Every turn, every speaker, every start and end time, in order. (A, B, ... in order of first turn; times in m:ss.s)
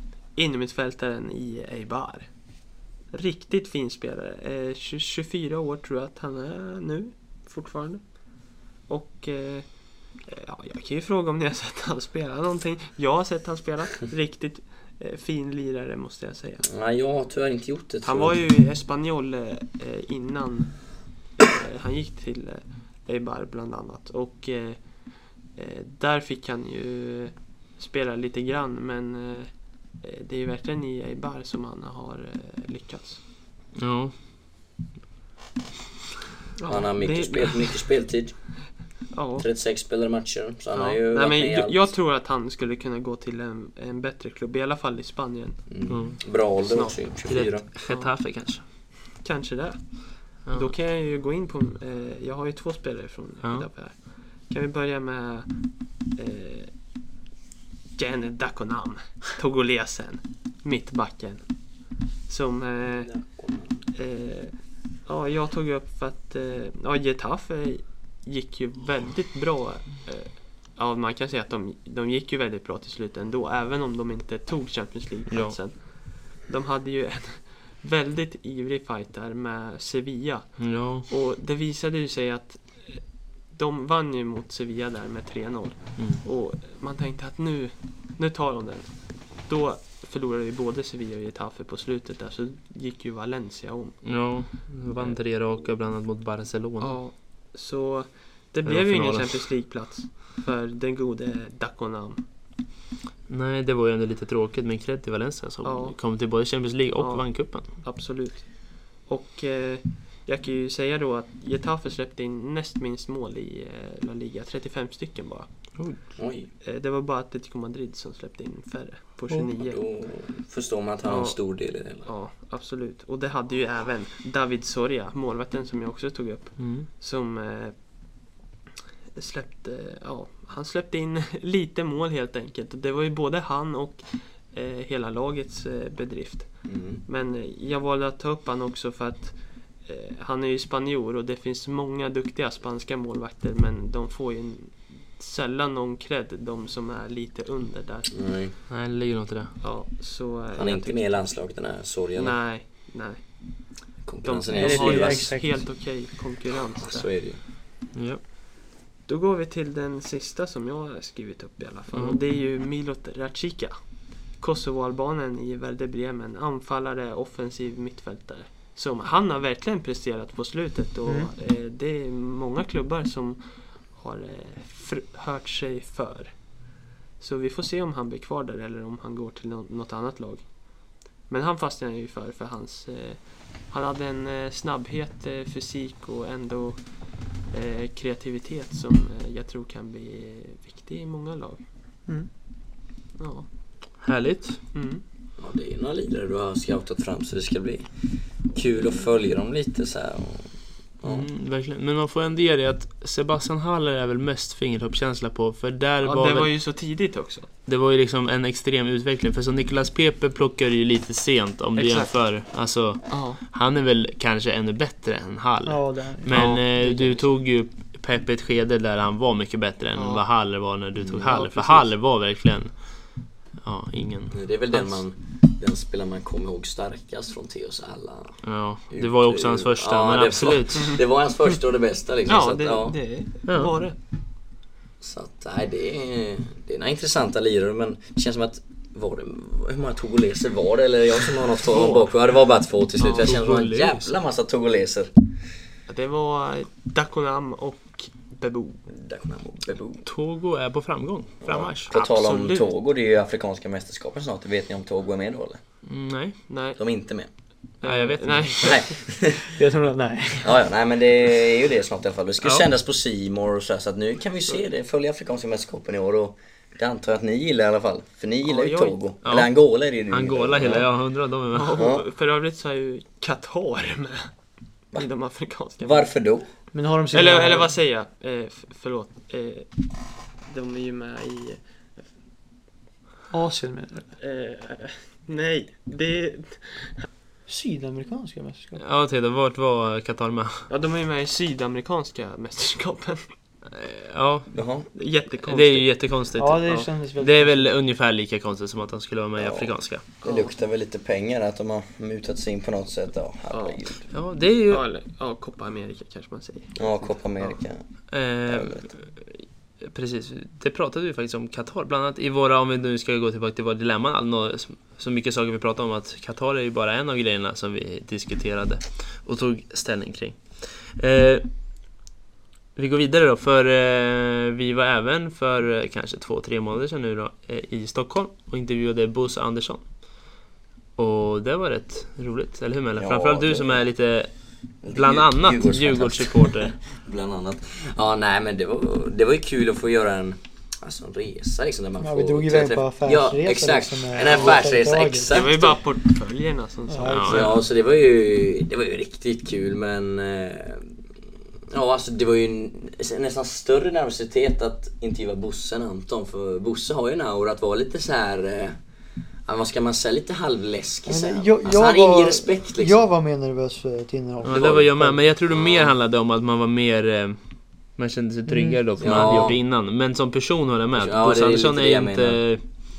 0:00.3-0:02.5 A
0:03.1-0:16.7 A
0:16.6-0:18.4 B
0:18.0-0:33.2 A
0:33.8-0:34.1 C
0:36.6-0:37.8 A
0:36.7-0:38.4 B
0:39.1-0:39.4 A
0:39.4-0:41.9 B
0:40.7-0:45.6 A
0:45.7-0:47.6 B
0:45.9-0:46.2 C
0:46.6-0:47.1 A
0:47.3-0:48.6 C
0:47.9-0:48.2 A
0:49.2-0:56.7 A
0:50.5-0:50.7 C
0:58.0-1:01.6 A
1:02.3-1:03.2 A
1:03.1-1:03.8 B
1:04.0-1:34.3 A
1:15.3-1:15.6 C
1:20.6-1:21.1 C
1:26.0-1:26.2 C
1:34.0-1:37.0 C
1:35.0-1:35.2 A
1:36.8-1:42.2 A
1:38.6-1:39.5 C
1:43.3-1:47.7 C
1:45.6-1:46.0 A
1:47.0-1:55.5 A
1:56.2-1:56.5 B
1:56.6-1:59.8 A
1:59.6-2:02.1 B
2:01.0-2:01.4 A
2:02.0-2:07.9 A
2:06.6-2:06.9 C
2:09.2-2:28.2 A
2:16.6-2:17.0 B
2:28.1-2:28.6 B
2:28.7-2:29.5 C
2:29.6-2:31.4 A
2:30.6-2:32.4 B
2:32.1-2:33.7 A
2:34.0-2:35.3 B
2:34.2-2:37.1 A
2:34.5-2:35.6 D
2:36.8-2:37.4 B
2:37.9-2:38.2 C
2:39.1-2:56.6 A
2:41.9-2:42.2 C
2:51.1-2:51.3 D
2:57.2-3:11.6 A
3:13.2-3:13.5 A
3:14.0-3:14.6 C
3:14.7-3:15.0 A
3:15.4-3:17.9 B
3:18.5-3:21.3 B
3:21.0-3:26.6 C
3:26.0-3:27.5 A
3:27.7-3:44.4 C
3:31.8-3:32.4 A
3:33.1-3:33.4 A
3:35.7-3:36.6 D
3:36.3-3:37.2 A
3:39.9-3:40.2 A
3:41.0-3:41.4 B
3:41.3-3:41.9 A
3:44.3-3:53.0 B
3:48.4-3:51.0 C
3:52.3-3:54.0 A
3:53.5-3:53.7 C
3:55.0-4:05.1 B
4:01.7-4:02.1 A
4:03.0-4:03.3 A
4:03.2-4:04.1 C
4:05.9-4:08.9 A
4:08.9-4:10.0 B
4:10.0-4:11.9 C
4:11.4-4:15.6 B
4:11.9-4:12.7 A
4:15.9-4:16.4 C
4:16.5-4:16.8 A
4:16.8-4:17.3 B
4:17.8-4:18.9 A
4:17.8-4:18.7 C
4:18.6-4:19.5 B
4:19.5-4:20.6 D
4:20.4-4:30.9 B
4:28.4-4:29.0 A
4:29.2-4:29.5 C
4:30.1-4:31.9 C
4:31.5-4:34.4 A
4:31.8-4:32.0 B
4:34.9-4:36.1 A
4:35.8-4:36.5 B
4:36.7-4:37.7 D
4:37.1-4:39.7 A
4:40.4-4:41.6 A
4:43.3-4:44.1 D
4:44.2-4:47.1 A
4:47.5-4:48.8 D
4:48.8-4:50.7 C
4:50.7-4:53.3 A
4:53.7-4:54.5 C
4:54.5-4:54.9 B
4:54.9-4:56.9 A
4:55.5-5:00.0 C
4:56.4-4:57.7 D
4:59.4-5:04.1 B
5:00.2-5:00.5 A
5:03.5-5:03.8 A
5:04.1-5:04.8 C
5:04.7-5:07.6 A
5:06.8-5:07.8 B
5:08.1-5:09.1 C
5:08.5-5:08.8 B
5:09.8-5:21.4 C
5:22.8-5:29.8 C
5:31.0-5:34.3 C
5:33.0-5:33.8 B
5:34.8-5:45.8 B
5:34.9-5:36.8 C
5:42.0-5:45.4 D
5:44.3-5:44.6 A
5:45.3-5:47.4 A
5:46.9-5:47.6 D
5:47.1-5:47.6 C
5:47.3-5:50.9 B
5:51.7-5:58.8 B
5:59.5-6:03.0 B
6:01.1-6:05.2 D
6:04.4-6:07.4 C
6:04.5-6:04.9 B
6:05.5-6:06.0 B
6:07.9-6:12.6 C
6:08.5-6:08.8 D
6:09.0-6:09.6 B
6:11.0-6:12.4 B